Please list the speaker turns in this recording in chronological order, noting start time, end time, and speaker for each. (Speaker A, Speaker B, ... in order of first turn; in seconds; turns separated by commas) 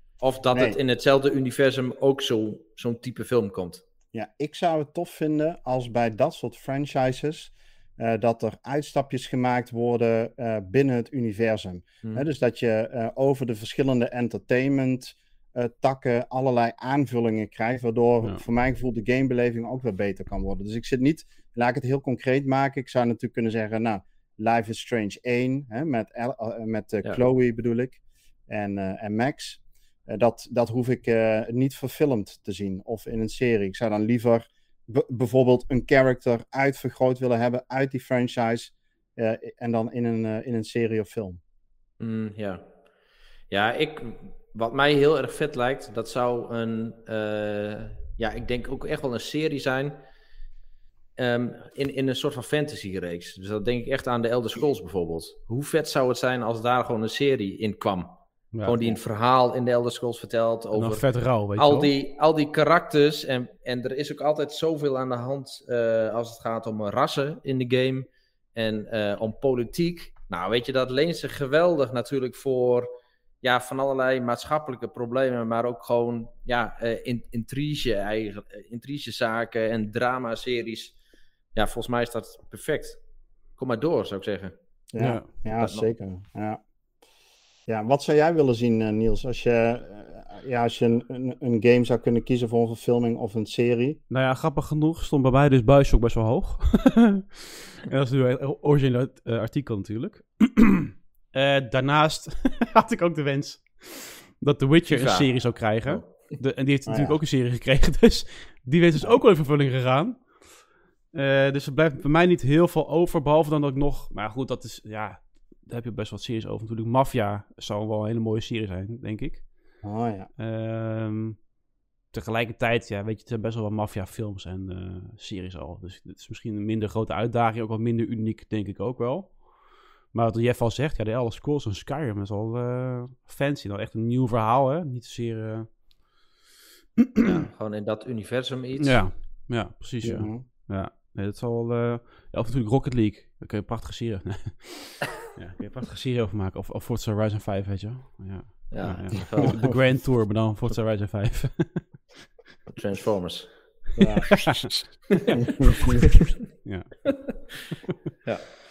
Speaker A: 0.2-3.8, Speaker B: 0.5-0.8, Speaker B: 4.1-41.4, Speaker A: 42.0-42.6, Speaker A: 43.5-50.0, Speaker A: 51.2-61.0, Speaker C: 58.5-58.9, Speaker C: 60.7-61.9, Speaker A: 61.6-72.9, Speaker A: 73.4-80.9, Speaker A: 81.5-83.0, Speaker A: 83.6-84.5, Speaker B: 84.9-86.6, Speaker C: 85.0-85.2, Speaker A: 85.6-85.9, Speaker B: 87.7-94.0, Speaker C: 94.1-110.4, Speaker A: 104.9-106.3, Speaker B: 106.9-107.2, Speaker C: 111.1-119.5, Speaker B: 119.8-120.3, Speaker C: 120.4-121.4, Speaker C: 122.1-129.4, Speaker C: 130.1-135.7, Speaker C: 137.0-137.3, Speaker A: 137.2-139.0, Speaker C: 138.8-152.1, Speaker B: 140.0-140.4, Speaker A: 148.7-149.6, Speaker B: 149.4-149.8, Speaker A: 152.8-154.1, Speaker B: 154.0-154.5, Speaker C: 154.4-154.7, Speaker A: 155.1-156.3, Speaker B: 155.3-156.0, Speaker C: 156.5-157.1, Speaker A: 158.2-158.6